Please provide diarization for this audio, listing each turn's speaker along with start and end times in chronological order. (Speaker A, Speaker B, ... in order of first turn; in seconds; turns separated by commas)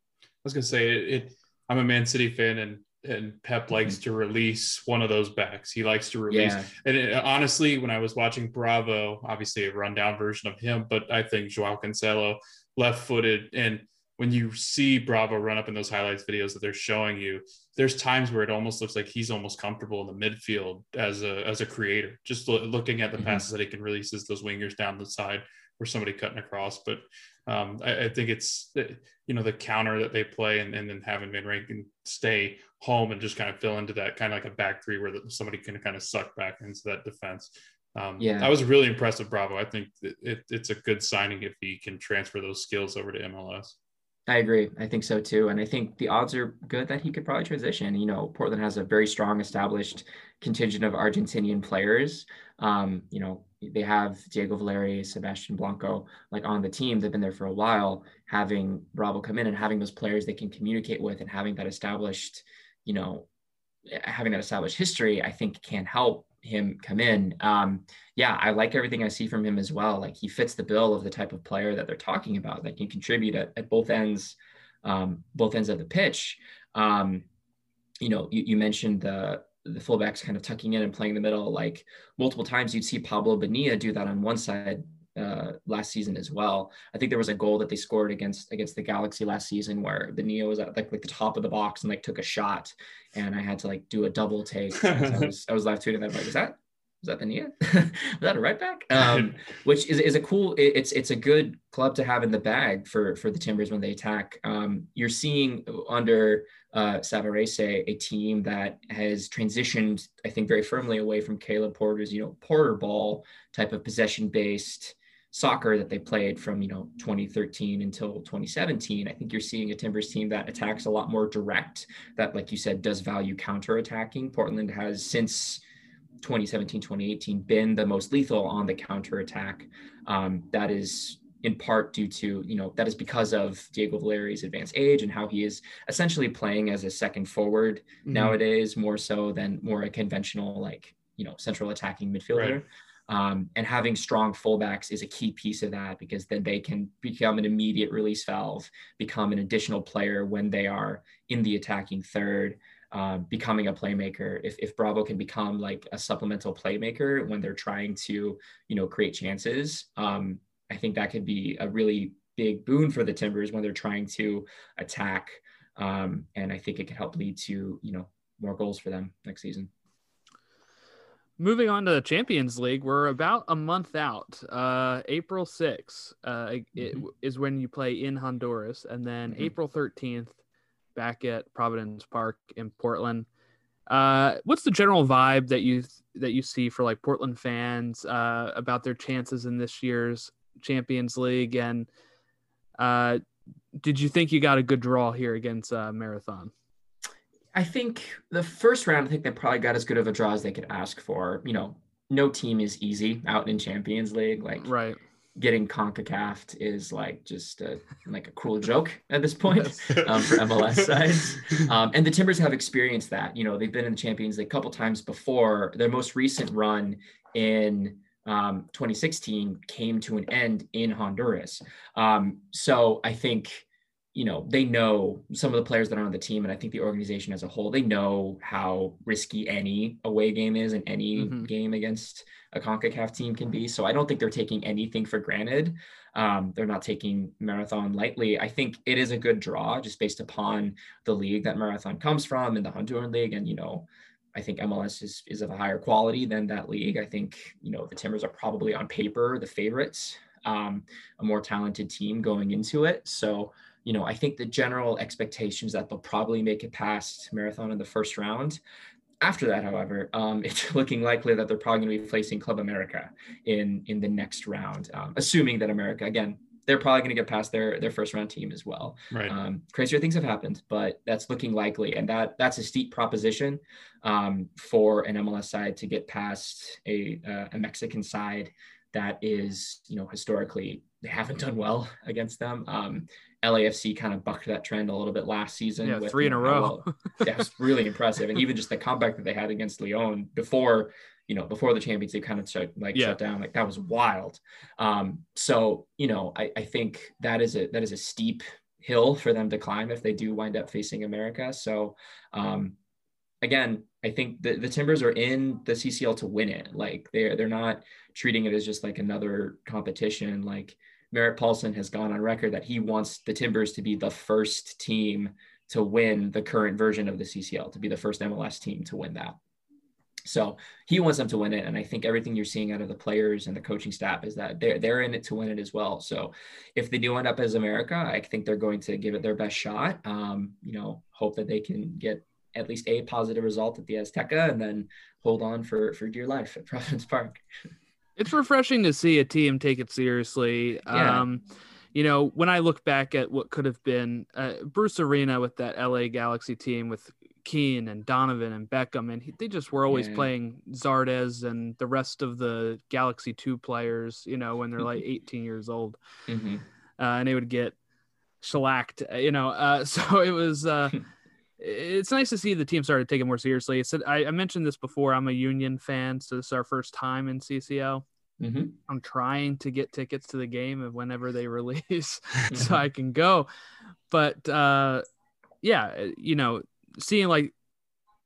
Speaker A: 0.4-43.8, Speaker B: 6.3-6.7, Speaker B: 38.2-38.6, Speaker B: 44.3-63.2, Speaker B: 63.9-77.2, Speaker B: 78.0-125.6, Speaker A: 94.9-95.3, Speaker B: 126.2-169.7, Speaker A: 138.1-138.4, Speaker A: 142.3-142.6, Speaker C: 171.4-180.4, Speaker C: 180.9-183.3, Speaker C: 183.9-191.9, Speaker C: 192.8-193.2, Speaker C: 193.8-196.5, Speaker B: 197.5-204.7, Speaker C: 204.6-205.0, Speaker B: 205.3-258.6, Speaker C: 231.2-231.5, Speaker B: 259.2-302.8, Speaker C: 285.8-287.2, Speaker B: 303.4-319.4, Speaker B: 320.3-337.4, Speaker C: 338.2-341.4, Speaker B: 340.9-341.2, Speaker C: 341.9-356.0, Speaker B: 349.9-350.3, Speaker B: 356.3-356.6, Speaker C: 357.0-357.8, Speaker C: 358.4-361.0, Speaker C: 361.6-368.0, Speaker B: 368.4-368.7, Speaker C: 368.9-373.5, Speaker B: 372.5-372.8, Speaker C: 374.1-375.0, Speaker C: 375.6-377.5